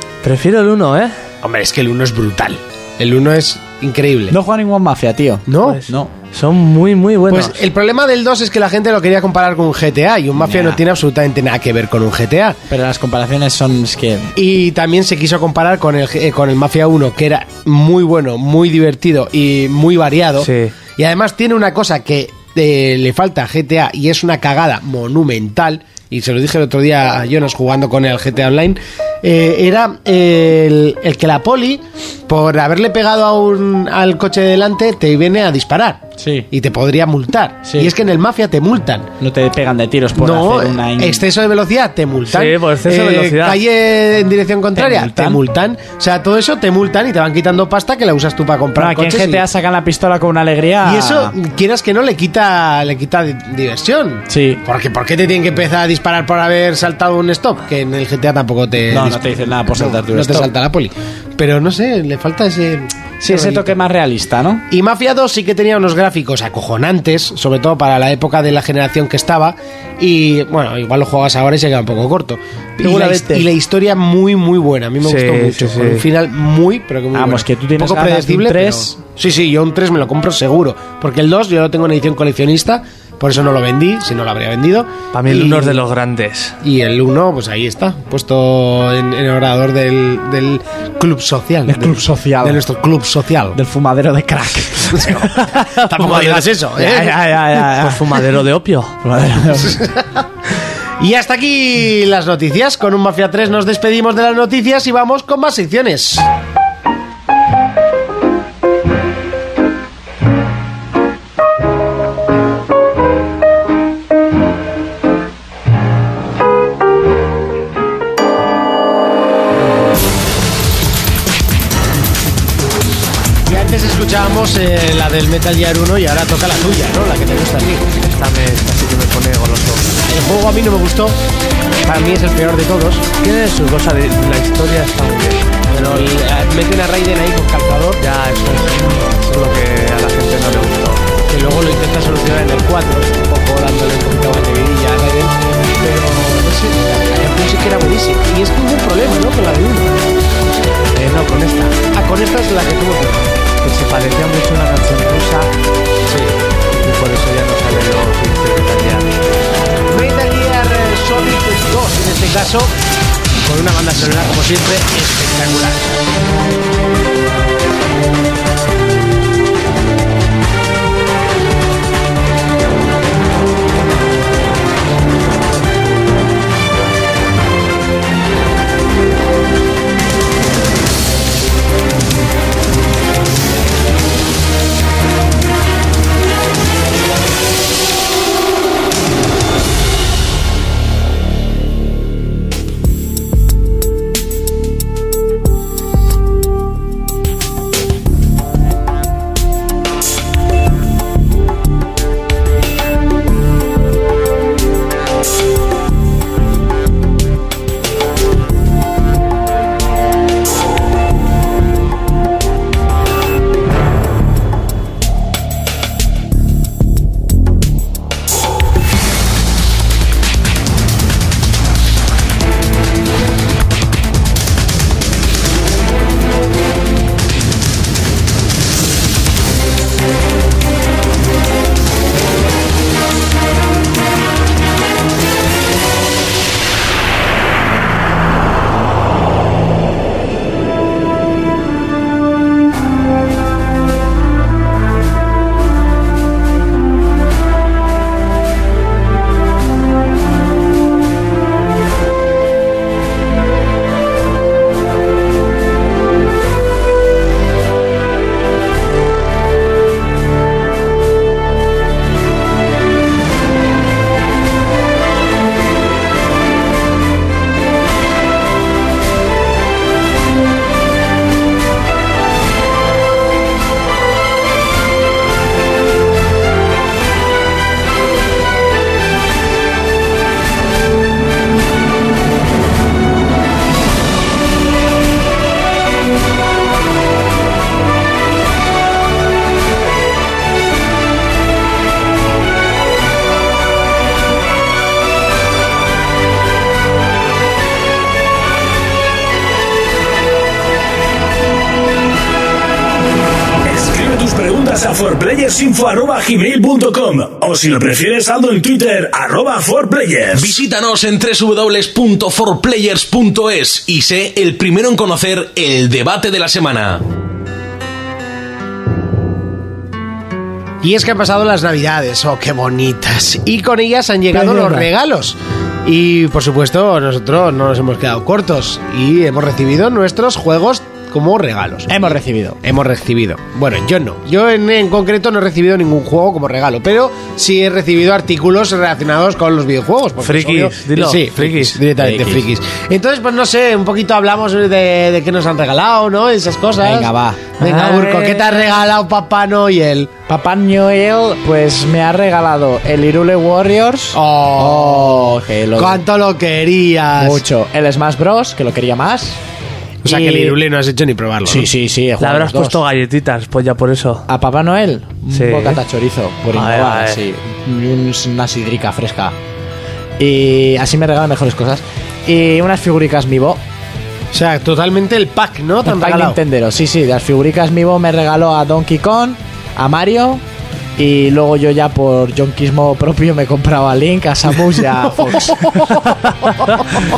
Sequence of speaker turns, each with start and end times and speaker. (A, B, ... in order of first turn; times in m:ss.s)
0:00.2-0:01.1 A
0:01.4-0:04.4 B
0:04.3-0:06.1 C
0:05.5-0:05.8 B
0:05.6-0:07.6 A
0:07.3-0:12.6 B
0:10.4-0:10.8 C
0:12.7-0:14.3 C
0:14.4-0:39.1 B
0:20.4-0:20.7 A
0:36.2-0:36.5 C
0:37.6-0:37.9 C
0:39.2-0:41.2 C
0:40.2-0:49.4 B
0:42.3-0:43.6 A
0:44.8-0:45.4 C
0:48.8-0:51.3 C
0:50.8-1:03.8 B
0:54.3-0:54.6 C
0:58.9-1:00.5 C
1:03.2-1:04.6 C
1:04.7-1:25.8 B
1:12.8-1:13.5 C
1:15.0-1:16.0 A
1:17.1-1:19.0 C
1:25.1-1:26.6 A
1:26.6-1:33.6 B
1:31.7-1:32.6 C
1:33.5-1:38.0 C
1:35.0-1:35.2 B
1:35.6-1:36.3 A
1:35.8-1:37.2 B
1:37.6-1:39.0 A
1:39.0-1:39.8 C
1:39.6-1:40.2 B
1:41.0-1:46.3 B
2:03.5-2:07.9 B
2:08.0-2:10.0 A
2:10.0-2:11.2 B
2:11.8-2:13.1 B
2:13.2-2:15.5 A
2:15.7-2:18.0 B
2:18.0-2:21.1 A
2:21.3-2:30.0 B
2:30.9-2:33.4 B
2:33.6-2:35.5 A
2:36.1-2:36.4 B
2:36.8-2:39.1 A
2:39.9-2:42.8 B
2:43.4-2:46.0 B
5:03.6-5:10.6 D
5:10.3-5:17.0 E
5:20.8-5:50.1 B
5:24.3-5:24.9 C
5:31.9-5:32.6 C
5:40.2-5:41.8 A
5:42.0-5:42.4 C
5:46.8-5:47.4 C
5:47.6-5:48.6 A
5:50.3-5:56.0 C
5:54.1-5:57.4 B
5:57.2-5:59.4 C
6:00.0-6:01.7 B
6:00.0-6:00.6 C
6:01.4-6:02.8 C
6:02.2-6:04.3 A
6:04.3-6:09.4 C
6:05.3-6:05.8 A
6:06.5-6:07.2 A
6:10.2-6:13.6 C
6:14.3-6:16.4 B
6:15.8-6:20.4 C
6:21.0-6:25.9 C
6:25.3-6:26.2 B